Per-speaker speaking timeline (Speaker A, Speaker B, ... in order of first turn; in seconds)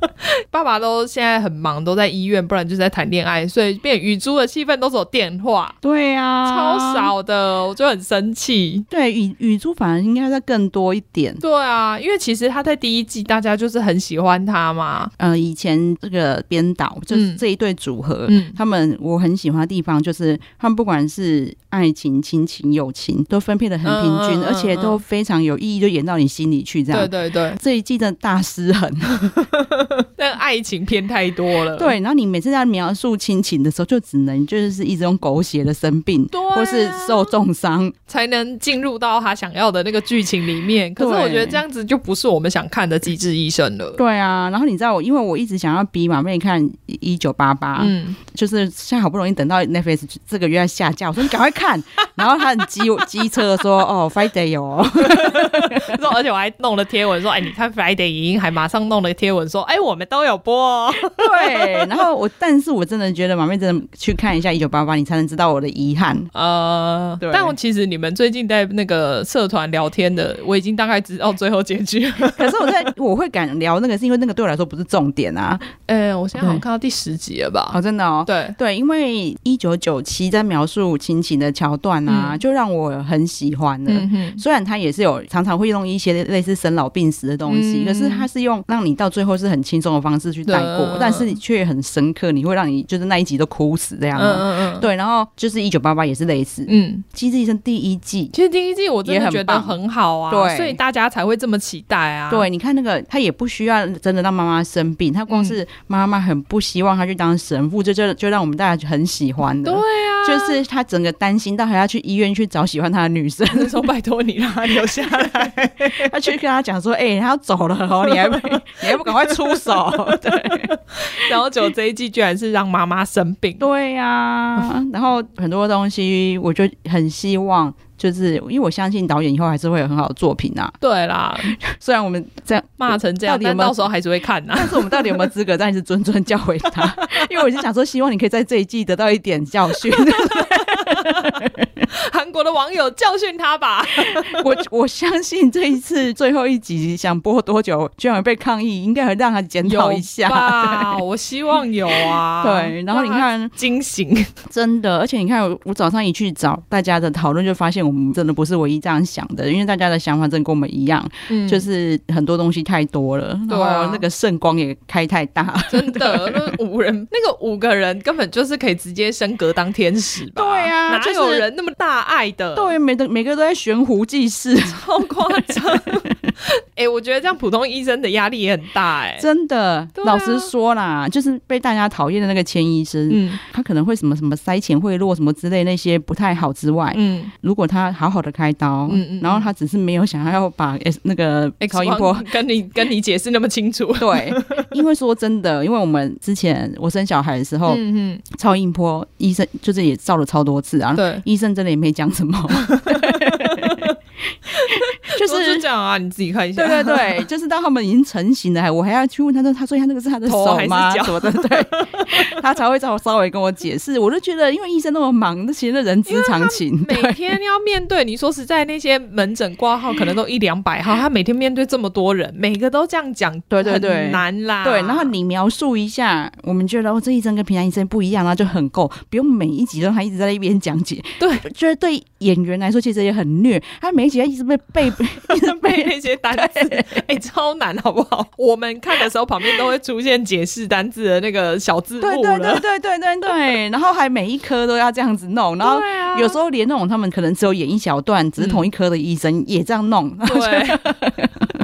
Speaker A: 0.5-5.8, 6.4-8.8, 11.4-15.1, 17.1-17.4, 18.3-18.6, 23.8-25.0, 26.9-27.6, 29.3-31.9, 36.3-37.3, 38.1-44.0, 47.8-48.2, 55.0-61.9, 66.3-72.9, 75.8-78.6, 82.1-82.4, 83.9-84.4, 87.5-88.3, 90.5-91.3, 94.2-94.9, 96.7-97.0, 98.3-102.5, 105.3-105.6, 109.6-110.6, 113.5-116.1, 118.1-123.6, 130.8-131.6, 132.8-135.3, 136.9-137.3, 139.9-144.5, 149.6-154.3, 161.3-161.7, 163.5-164.0, 165.7-172.8, 174.6-179.2, 179.9-180.5, 183.1-183.4, 186.9-187.3, 188.9-189.5, 191.6-194.7, 197.7-198.2, 200.9-201.2, 202.5-203.9, 204.5-207.2, 210.2-212.3, 216.1-225.1, 231.2-231.4, 235.2-242.6, 245.6-246.4, 248.4-248.7, 250.2-250.9
Speaker B: 5.8-7.1, 8.9-11.4, 15.2-29.3, 31.8-37.9, 41.0-41.6, 44.0-55.9, 61.0-66.3, 67.2-67.5, 72.2-75.7, 76.4-76.6, 77.7-98.3, 99.0-99.8, 100.3-100.8, 102.3-113.8, 115.0-115.5, 116.0-121.2, 123.6-130.7, 131.4-133.9, 134.5-141.8, 144.1-151.0, 152.4-153.5, 154.5-166.5, 170.3-171.4, 172.5-176.2, 179.2-192.3, 194.0-203.9, 204.6-205.6, 206.6-217.2, 223.5-237.0, 242.0-251.5